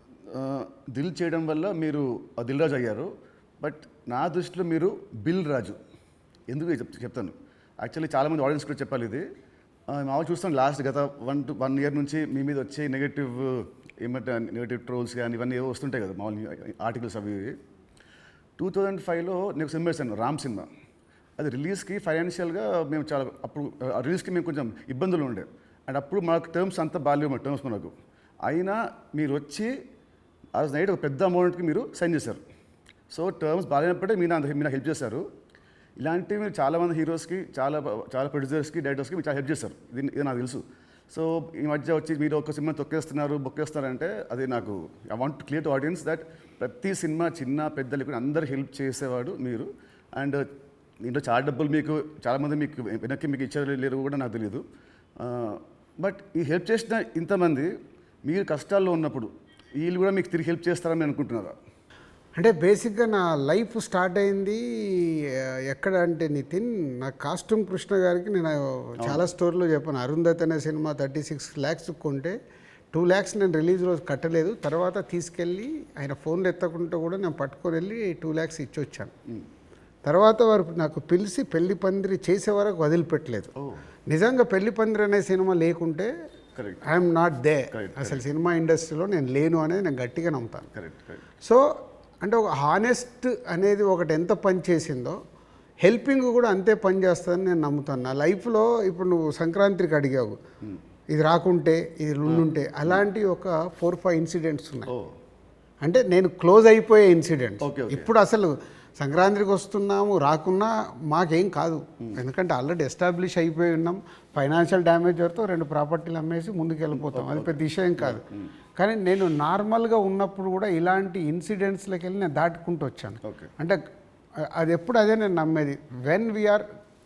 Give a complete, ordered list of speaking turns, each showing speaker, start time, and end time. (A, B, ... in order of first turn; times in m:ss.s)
0:00.3-0:05.8 A
0:06.5-0:09.2 A
0:09.9-0:17.6 A
0:18.6-0:20.7 A
0:21.4-0:27.9 A
0:28.4-0:29.7 A
0:30.5-0:32.4 A
0:33.1-0:35.2 A
0:36.0-0:50.4 A
0:51.0-0:54.6 A
0:55.2-0:57.7 A
0:58.3-1:01.5 A
1:02.4-1:12.4 B
1:12.9-1:19.1 B
1:20.0-1:23.5 B
1:24.1-1:26.1 B
1:26.6-1:26.8 A
1:26.8-1:30.7 B
1:27.7-1:28.2 A
1:30.7-1:31.2 A
1:32.2-1:35.2 B
1:35.8-1:40.4 B
1:41.1-1:44.9 B
1:42.2-1:43.0 A
1:45.8-1:58.2 B
1:47.6-1:48.1 A
1:56.9-1:58.5 A
1:58.8-2:03.8 B
2:03.2-2:03.5 A
2:04.6-2:06.6 B